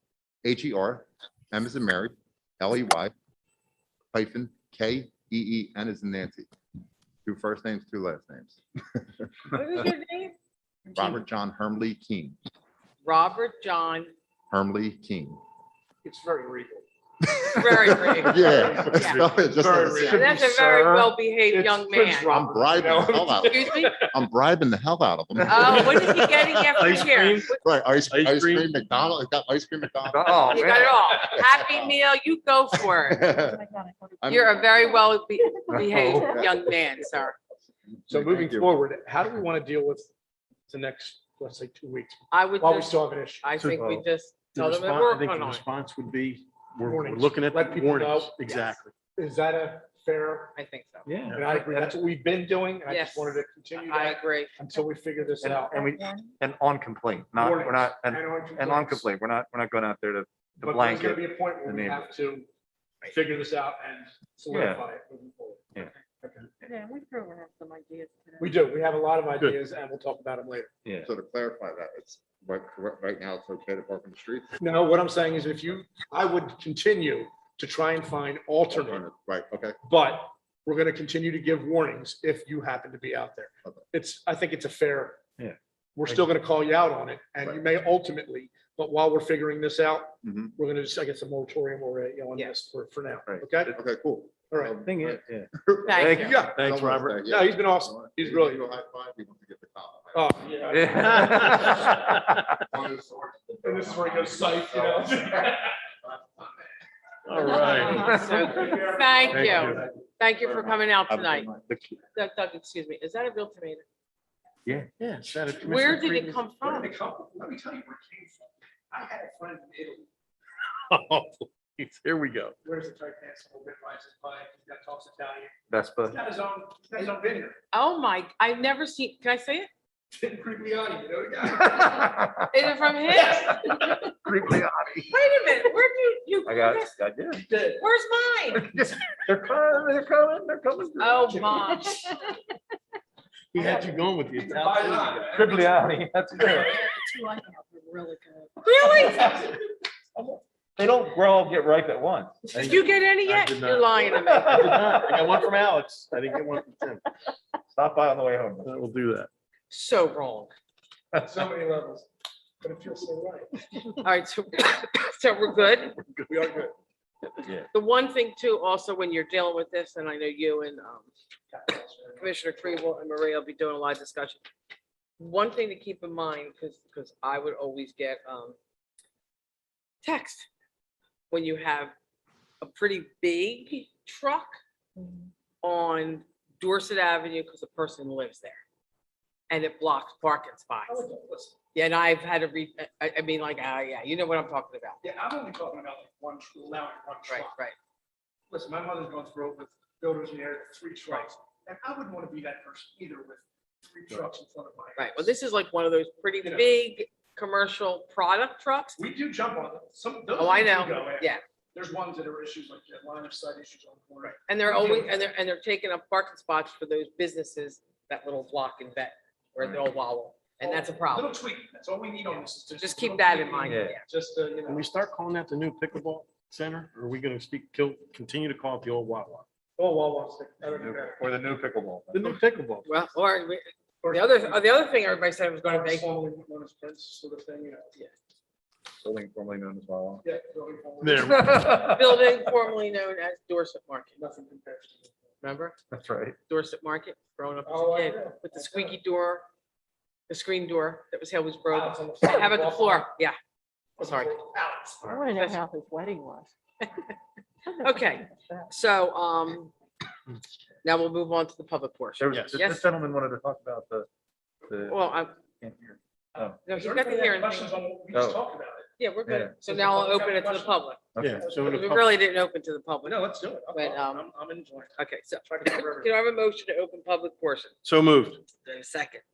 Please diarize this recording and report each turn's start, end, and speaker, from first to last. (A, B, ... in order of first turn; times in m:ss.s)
0:00.4-0:03.1 A
0:04.1-0:06.5 A
0:07.2-0:09.3 A
0:09.5-0:10.3 B
0:10.9-0:12.4 A
0:13.0-0:14.1 B
0:14.5-0:15.4 A
0:16.0-0:16.8 C
0:17.3-0:20.4 A
0:17.5-0:19.2 B
0:18.2-0:24.1 C
0:19.0-0:19.3 D
0:20.0-0:22.4 B
0:22.3-0:31.9 A
0:23.4-0:24.0 B
0:25.4-0:27.6 B
0:25.6-0:26.0 D
0:26.7-0:27.5 D
0:28.0-0:28.7 D
0:30.1-0:31.0 E
0:30.5-0:33.3 B
0:32.9-0:33.6 A
0:33.4-0:34.6 F
0:34.2-0:35.0 A
0:34.3-0:37.4 B
0:35.7-0:36.0 E
0:35.9-0:36.7 A
0:37.9-0:38.8 A
0:38.1-0:40.1 C
0:40.7-0:43.5 C
0:42.3-0:45.6 B
0:43.5-0:44.0 D
0:44.5-0:48.9 D
0:46.8-0:48.3 C
0:49.1-0:50.5 C
0:50.6-0:51.1 B
0:51.0-0:51.5 D
0:51.2-0:52.0 E
0:51.3-0:55.8 C
0:52.9-0:54.5 B
0:55.4-1:02.1 E
0:55.7-0:56.1 F
0:57.4-0:59.1 C
1:00.6-1:02.5 C
1:03.0-1:06.5 C
1:04.5-1:04.8 E
1:06.6-1:08.5 B
1:08.4-1:10.7 C
1:11.0-1:14.5 A
1:14.6-1:19.0 C
1:18.7-1:19.8 A
1:19.8-1:25.2 C
1:25.4-1:26.3 E
1:26.0-1:33.7 C
1:30.2-1:30.5 A
1:33.3-1:33.7 E
1:33.7-1:45.3 A
1:34.5-1:34.8 C
1:34.8-1:36.4 E
1:35.8-1:36.4 B
1:36.2-1:36.6 C
1:36.4-1:37.2 D
1:37.2-1:38.6 C
1:40.1-1:41.2 C
1:40.7-1:42.4 E
1:40.9-1:42.2 D
1:43.6-1:45.8 C
1:47.2-1:48.1 D
1:47.3-1:50.0 C
1:47.4-1:51.5 B
1:47.9-1:48.4 E
1:49.3-1:49.8 D
1:50.4-1:51.6 A
1:51.5-1:52.0 E
1:52.1-1:53.8 B
1:55.0-1:56.5 D
1:55.6-1:57.0 B
1:56.6-2:00.1 C
2:00.9-2:02.5 D
2:02.6-2:05.5 C
2:05.7-2:06.2 E
2:06.1-2:07.6 C
2:07.7-2:09.7 B
2:10.1-2:12.0 C
2:11.4-2:15.2 E
2:12.5-2:13.5 B
2:13.0-2:14.1 C
2:15.1-2:16.9 B
2:16.4-2:17.4 E
2:17.3-2:17.8 C
2:17.8-2:18.7 B
2:18.5-2:21.8 E
2:21.0-2:22.0 B
2:21.3-2:22.1 C
2:23.5-2:25.4 D
2:24.3-2:25.6 C
2:25.3-2:26.8 E
2:26.4-2:27.0 C
2:26.6-2:29.4 B
2:26.7-2:28.3 F
2:28.8-2:29.5 E
2:29.0-2:29.5 C
2:30.2-2:32.4 E
2:32.5-2:35.0 B
2:32.5-2:37.1 D
2:34.2-2:35.5 E
2:37.7-2:38.7 E
2:38.6-2:39.3 D
2:39.7-2:40.5 B
2:41.2-2:42.1 C
2:42.6-2:43.6 C
2:44.0-2:46.0 B
2:46.3-2:46.7 C
2:47.7-2:51.1 B
2:51.5-2:52.3 C
2:52.2-2:54.4 B
2:55.2-2:58.6 B
3:00.0-3:00.5 B
3:01.3-3:01.9 B
3:02.6-3:04.6 B
3:05.6-3:08.6 B
3:09.5-3:11.0 B
3:10.8-3:11.6 C
3:11.7-3:15.0 B
3:15.0-3:17.6 C
3:17.3-3:17.7 B
3:18.5-3:25.3 C
3:25.0-3:29.0 B
3:26.4-3:26.7 C
3:29.0-3:35.2 C
3:30.3-3:31.4 B
3:34.2-3:41.3 B
3:40.6-3:44.9 C
3:42.3-3:44.0 B
3:43.6-3:43.9 E
3:44.7-3:49.4 D
3:49.8-3:51.2 C
3:50.6-3:52.4 E
3:52.1-3:52.9 D
3:52.8-3:56.1 B
3:54.0-3:54.9 C
3:55.6-3:58.0 C
3:59.0-4:00.2 E
4:00.2-4:01.7 C
4:01.0-4:01.5 D
4:01.1-4:02.5 E
4:01.7-4:04.1 B
4:04.1-4:05.1 C
4:05.4-4:05.8 B
4:05.9-4:06.4 E
4:06.5-4:09.4 B
4:07.6-4:09.0 C
4:10.3-4:13.3 B
4:11.7-4:13.1 C
4:14.0-4:15.2 C
4:14.0-4:14.4 B
4:15.1-4:16.5 F
4:15.1-4:15.6 B
4:17.8-4:19.7 B
4:17.8-4:18.6 F
4:20.8-4:22.8 B
4:22.2-4:24.1 E
4:22.3-4:22.6 D
4:24.7-4:26.6 E
4:24.8-4:25.3 B
4:26.3-4:28.9 C
4:26.6-4:27.8 B
4:28.1-4:28.4 E
4:29.0-4:31.0 B
4:29.2-4:29.5 E
4:29.6-4:32.0 C
4:31.2-4:31.4 E
4:31.2-4:32.2 D
4:31.6-4:34.2 B
4:33.0-4:36.2 C
4:35.0-4:37.7 B
4:37.8-4:38.4 D
4:38.6-4:39.2 B